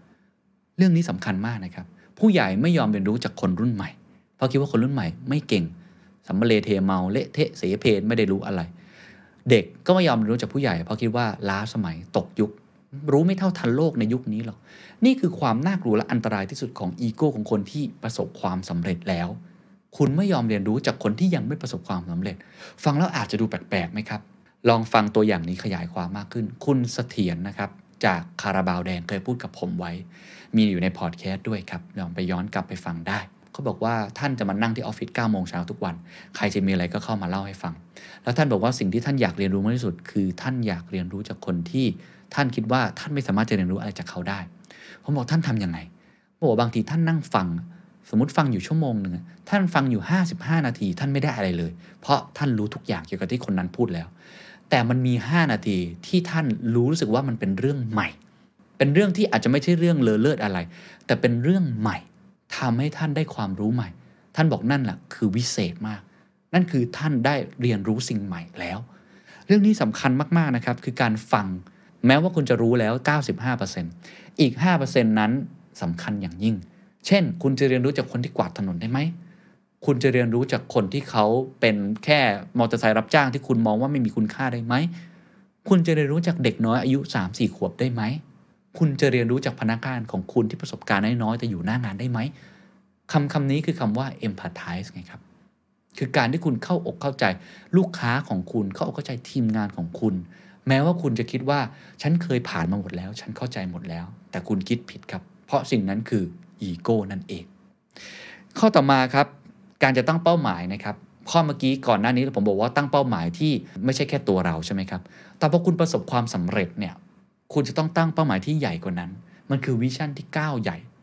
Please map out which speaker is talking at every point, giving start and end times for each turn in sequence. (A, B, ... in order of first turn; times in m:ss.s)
0:00.8-0:05.7 A
0:06.2-0:08.7 A
0:09.5-0:19.4 A
0:19.9-0:44.5 A
0:45.0-0:45.9 A
0:46.4-0:54.1 A
0:54.7-0:58.1 A
0:58.8-1:08.8 A
1:09.5-1:19.1 A
1:19.8-1:24.9 A
1:25.6-1:28.2 A
1:28.7-1:32.3 A
1:33.1-1:35.2 A
1:35.9-1:47.5 A
1:48.5-1:57.0 A
1:57.5-2:00.8 A